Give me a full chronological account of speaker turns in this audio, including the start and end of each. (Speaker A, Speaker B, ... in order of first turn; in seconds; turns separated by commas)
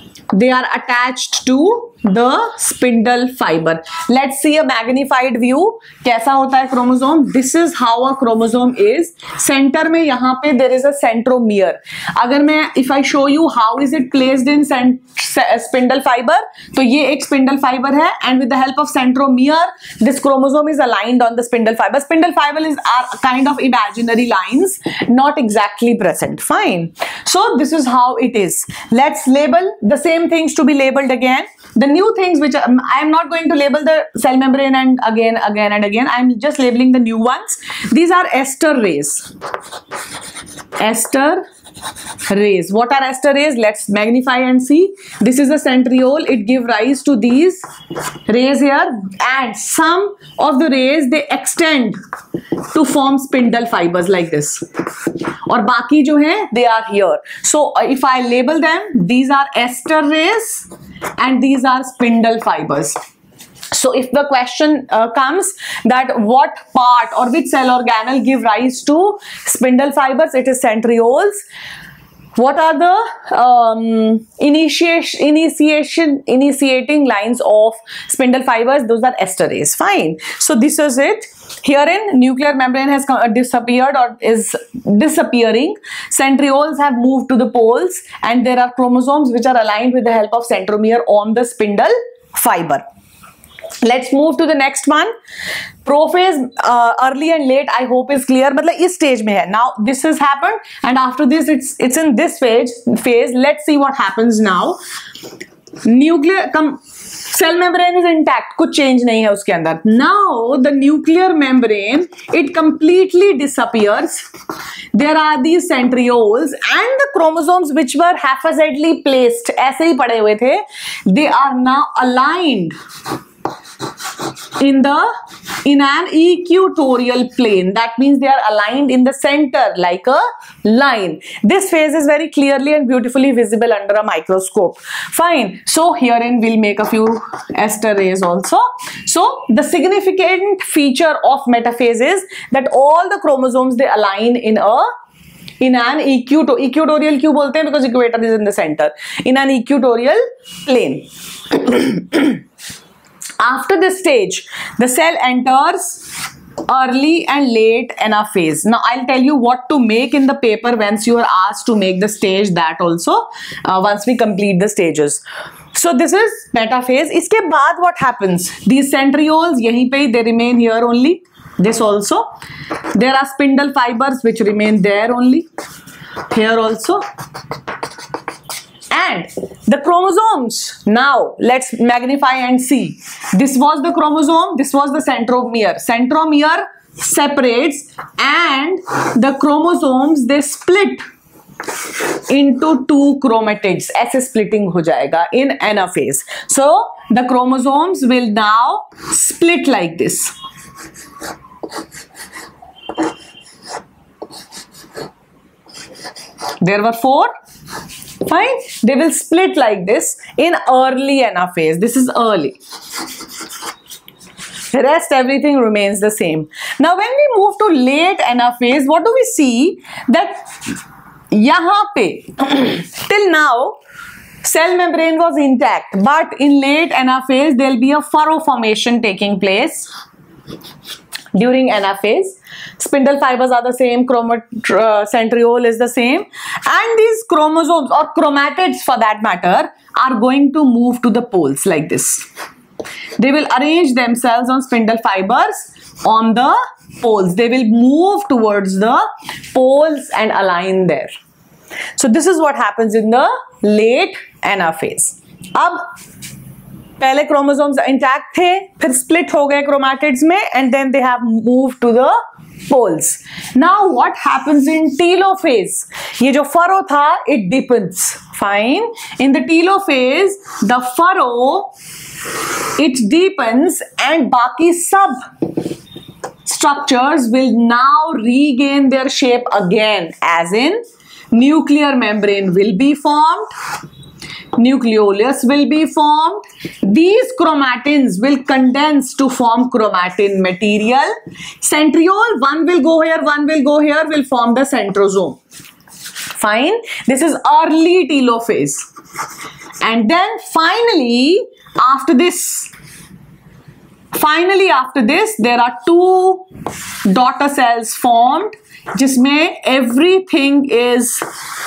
Speaker A: 0.3-39.3, Speaker A: 40.8-41.4, Speaker A: 42.3-47.6, Speaker A: 48.3-52.0, Speaker A: 52.7-63.0, Speaker A: 63.7-71.4, Speaker A: 72.3-92.8, Speaker A: 93.8-95.1, Speaker A: 95.8-104.8, Speaker A: 105.8-114.3, Speaker A: 114.9-122.8, Speaker A: 124.6-125.1, Speaker A: 125.6-144.9, Speaker A: 145.6-152.4, Speaker A: 153.4-165.2, Speaker A: 165.7-172.3, Speaker A: 172.9-175.5, Speaker A: 176.3-177.0, Speaker A: 178.9-191.0, Speaker A: 192.2-200.3, Speaker A: 206.6-207.3, Speaker A: 208.2-212.6, Speaker A: 214.7-220.7, Speaker A: 221.3-223.8, Speaker A: 224.4-229.9, Speaker A: 231.3-242.2, Speaker A: 243.2-251.1, Speaker A: 252.0-255.9, Speaker A: 257.0-262.1, Speaker A: 262.6-271.7, Speaker A: 272.8-275.2, Speaker A: 276.4-280.8, Speaker A: 281.3-283.5, Speaker A: 284.6-295.4, Speaker A: 296.3-298.8, Speaker A: 299.8-302.7, Speaker A: 304.1-306.5, Speaker A: 307.1-311.2